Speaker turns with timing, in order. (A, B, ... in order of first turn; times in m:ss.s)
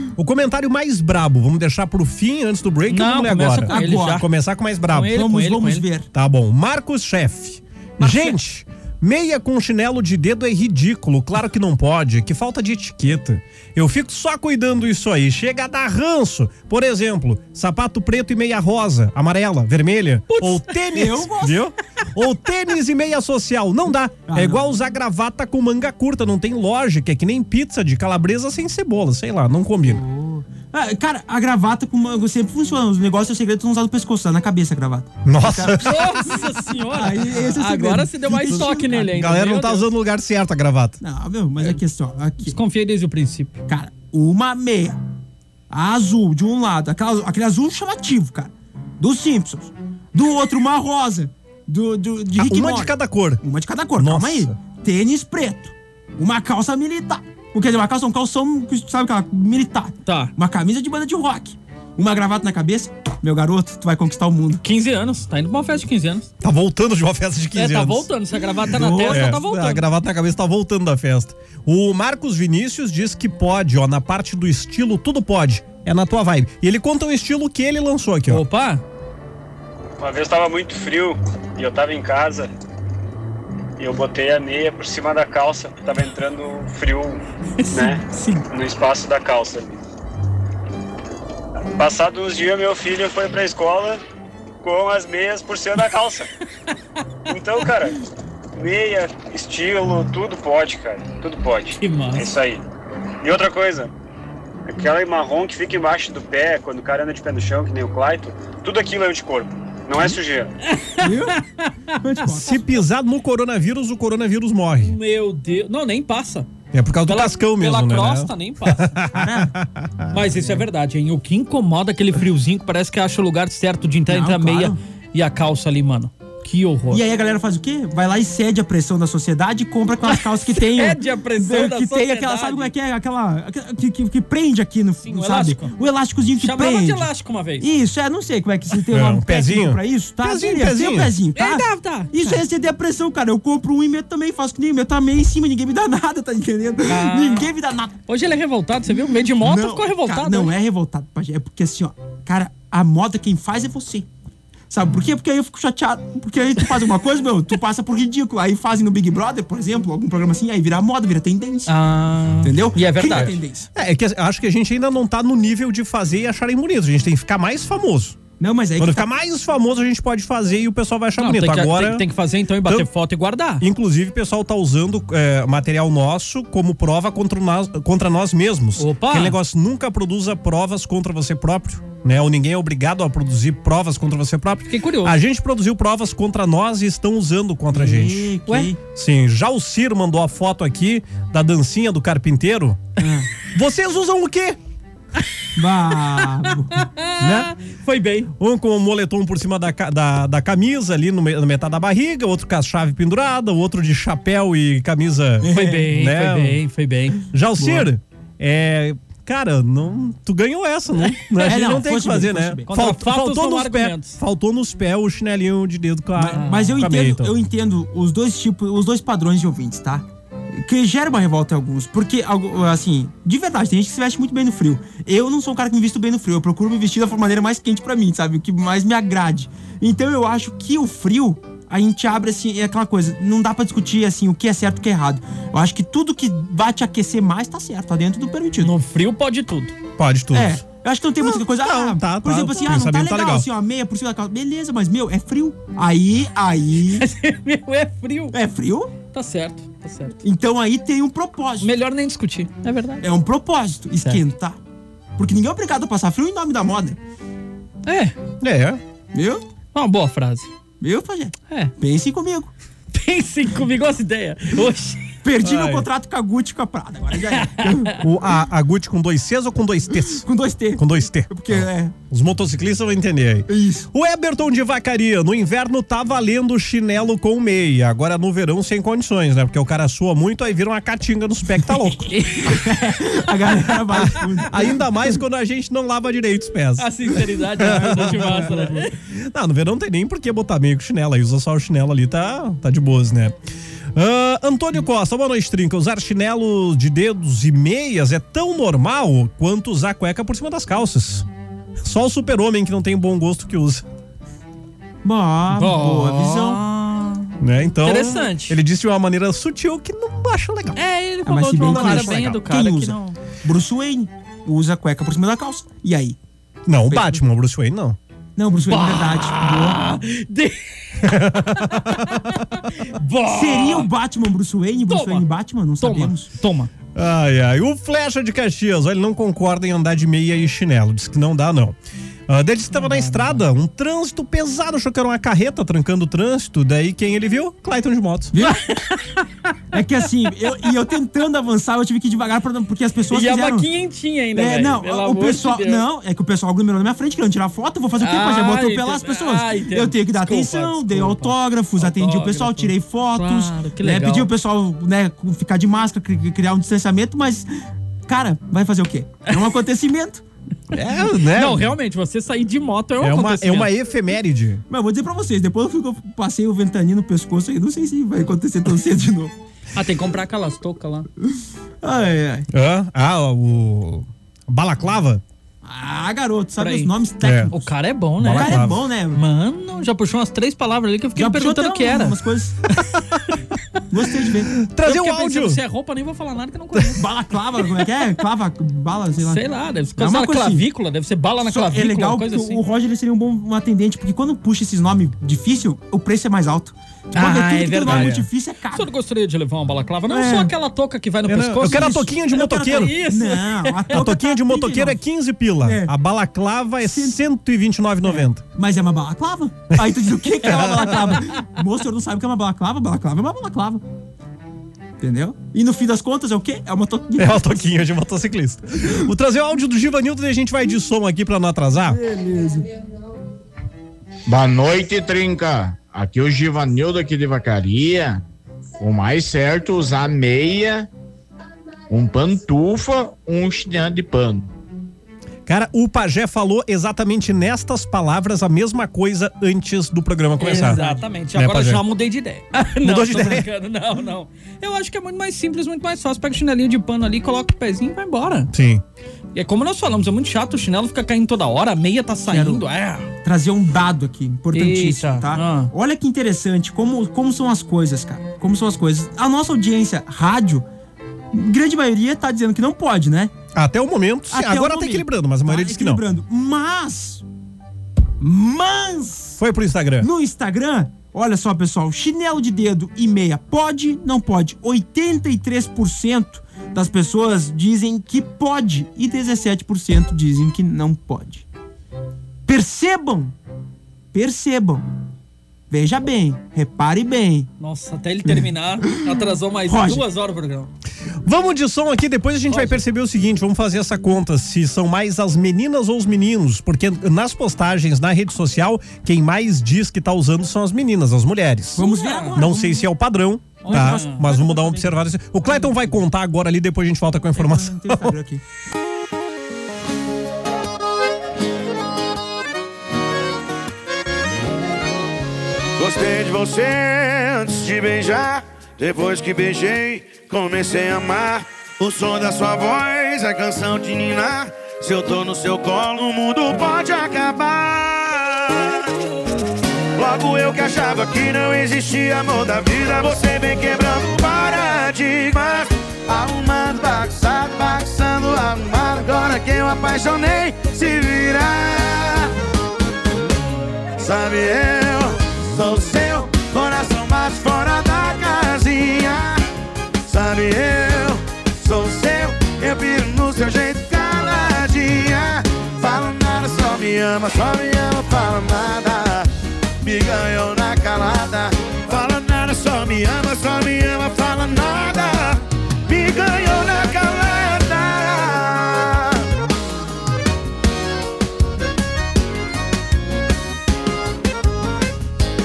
0:00.2-0:05.2 A
0:02.9-0:04.3 B
0:03.7-0:04.2 C
0:04.9-0:05.8 B
0:05.0-0:06.1 C
0:06.1-0:30.0 A
0:08.0-0:08.3 C
0:20.3-0:21.0 B
0:20.9-0:21.6 C
0:24.3-0:24.7 C
0:29.8-0:39.1 C
0:35.2-0:36.1 A
0:35.8-0:39.9 B
0:38.4-0:41.0 A
0:41.0-0:42.6 C
0:42.4-0:43.6 B
0:43.7-0:45.0 C
0:45.7-1:04.6 C
0:52.4-0:53.4 A
0:54.0-0:54.5 A
1:00.0-1:00.3 B
1:04.6-1:06.3 B
1:06.4-1:08.1 A
1:07.5-1:09.8 B
1:08.7-1:09.4 C
1:08.9-1:18.4 A
1:18.3-1:18.8 B
1:20.0-1:22.5 D
1:23.8-1:29.8 D
1:27.6-1:28.5 B
1:31.8-1:34.0 D
1:34.6-1:36.3 D
1:37.3-1:38.0 D
1:38.6-1:42.6 D
1:41.8-1:42.3 B
1:43.2-1:43.9 D
1:44.7-1:50.5 D
1:50.7-1:51.7 B
1:51.0-1:51.4 C
1:52.0-1:52.6 C
1:52.3-1:55.0 A
1:54.8-1:56.5 B
1:56.7-2:00.2 A
1:57.0-1:59.0 B
1:59.1-1:59.5 C
2:00.1-2:07.0 B
2:04.1-2:04.8 C
2:06.9-2:28.0 C
2:10.1-2:12.7 B
2:15.0-2:15.7 B
2:16.4-2:17.7 B
2:18.9-2:21.2 A
2:21.3-2:22.4 B
2:26.9-2:27.5 B
2:28.1-2:30.5 B
2:29.4-2:34.1 C
2:34.7-2:41.7 C
2:41.7-2:43.4 B
2:42.4-2:43.7 C
2:43.7-2:48.2 A
2:48.4-2:49.1 C
2:48.8-2:52.1 A
2:51.2-2:53.6 B
2:52.6-2:52.9 A
2:53.6-3:08.3 A
2:58.8-2:59.4 B
3:04.6-3:05.2 B
3:07.7-3:08.8 C
3:08.9-3:12.9 A
3:13.0-3:13.3 C
3:13.5-3:14.6 A
3:15.6-3:16.9 C
3:16.2-3:18.3 B
3:17.2-3:17.5 A
3:18.4-3:26.6 A
3:25.4-3:25.9 C
3:25.5-3:27.2 B
3:27.3-3:37.3 A
3:27.6-3:27.9 C
3:31.3-3:31.8 B
3:31.4-3:32.7 C
3:32.7-3:34.2 B
3:36.2-3:58.7 C
3:36.3-3:36.8 B
3:58.6-3:59.7 B
4:00.0-4:00.6 A
4:00.3-4:07.0 C
4:01.2-4:03.5 A
4:06.9-4:08.4 B
4:08.3-4:08.9 C
4:09.1-4:10.2 B
4:10.2-4:11.7 C
4:11.6-4:13.0 B
4:13.0-4:14.6 C
4:15.2-4:17.0 C
4:17.8-4:18.1 B
4:18.4-4:18.8 A
4:19.1-4:19.4 C
4:19.7-4:20.5 B
4:20.8-4:22.5 C
4:22.9-4:25.2 B
4:25.2-4:28.0 C
4:25.4-4:25.9 A
4:27.4-4:27.9 B
4:28.0-4:42.1 A
4:30.1-4:31.9 C
4:33.5-4:33.9 C
4:42.0-4:42.8 B
4:42.4-4:45.0 C
4:43.9-4:46.9 A
4:46.8-4:48.9 B
4:47.6-4:53.4 A
4:47.6-4:48.6 C
4:53.9-5:01.2 A
5:01.8-5:03.8 A
5:05.0-5:06.6 C
5:05.5-5:08.6 B
5:07.4-5:10.8 A
5:10.8-5:13.2 B
5:11.2-5:16.2 C
5:11.6-5:12.4 A
5:16.6-5:18.0 A
5:16.9-5:17.2 C
5:18.4-5:19.8 C
5:18.7-5:23.9 B
5:21.0-5:22.3 A
5:23.3-5:26.3 C
5:24.9-5:25.2 B
5:25.8-5:26.7 B
5:26.9-5:31.8 A
5:32.3-5:38.3 A
5:32.7-5:33.4 B
5:38.3-5:38.6 C
5:38.4-5:39.5 B
5:39.7-5:43.7 C
5:43.1-5:45.8 B
5:44.3-5:57.5 C
5:48.0-5:54.3 B
5:58.1-6:00.2 C
6:00.7-6:01.7 A
6:01.3-6:03.7 B
6:03.0-6:04.6 A
6:04.7-6:09.3 C
6:09.7-6:11.1 B
6:11.8-6:12.5 C
6:12.5-6:15.2 A
6:15.6-6:17.7 C
6:16.6-6:16.9 B
6:17.2-6:17.5 A
6:17.5-6:22.2 B
6:18.2-6:18.8 A
6:18.2-6:19.2 C
6:21.1-6:22.6 C
6:23.9-6:24.5 C
6:24.6-6:25.6 A
6:24.8-6:27.1 B
6:27.0-6:30.6 C
6:29.2-6:32.6 B
6:31.4-6:38.9 C
6:37.1-6:38.1 B
6:37.9-6:38.3 A
6:38.7-6:44.0 B
6:40.1-6:40.5 C
6:41.3-6:42.9 A
6:41.6-6:45.0 C
6:43.9-6:48.4 A
6:45.6-6:45.9 C
6:46.8-6:47.2 C
6:48.0-6:53.8 C
6:49.7-6:51.2 A
6:55.0-6:57.7 C
6:57.2-7:02.0 A
7:01.9-7:02.7 C
7:04.3-7:08.2 E
7:08.8-7:10.9 E
7:11.9-7:14.5 E
7:15.5-7:20.8 A
7:20.4-7:28.5 B
7:20.5-7:21.0 C
7:21.3-7:21.8 A
7:22.8-7:23.5 A
7:28.5-7:28.8 A
7:29.3-7:33.1 B
7:32.3-7:32.6 C
7:33.2-7:40.6 C
7:34.5-7:35.7 B
7:41.3-7:43.3 C
7:43.5-7:46.0 A
7:44.3-7:47.2 C
7:48.2-7:49.4 C
7:49.4-7:50.1 A
7:50.0-8:01.4 C
8:02.4-8:03.3 C
8:04.1-8:04.8 C
8:05.7-8:07.5 C
8:07.6-8:10.7 B
8:09.7-8:10.0 C
8:11.2-8:28.1 A
8:12.5-8:12.8 B
8:21.8-8:22.9 C
8:21.8-8:22.4 B
8:23.6-8:24.9 B
8:23.7-8:24.3 C
8:27.4-8:28.4 C
8:35.8-8:48.8 F
8:50.0-9:02.3 F
9:04.0-9:09.4 F
9:10.0-9:19.3 F
9:19.8-9:29.2 F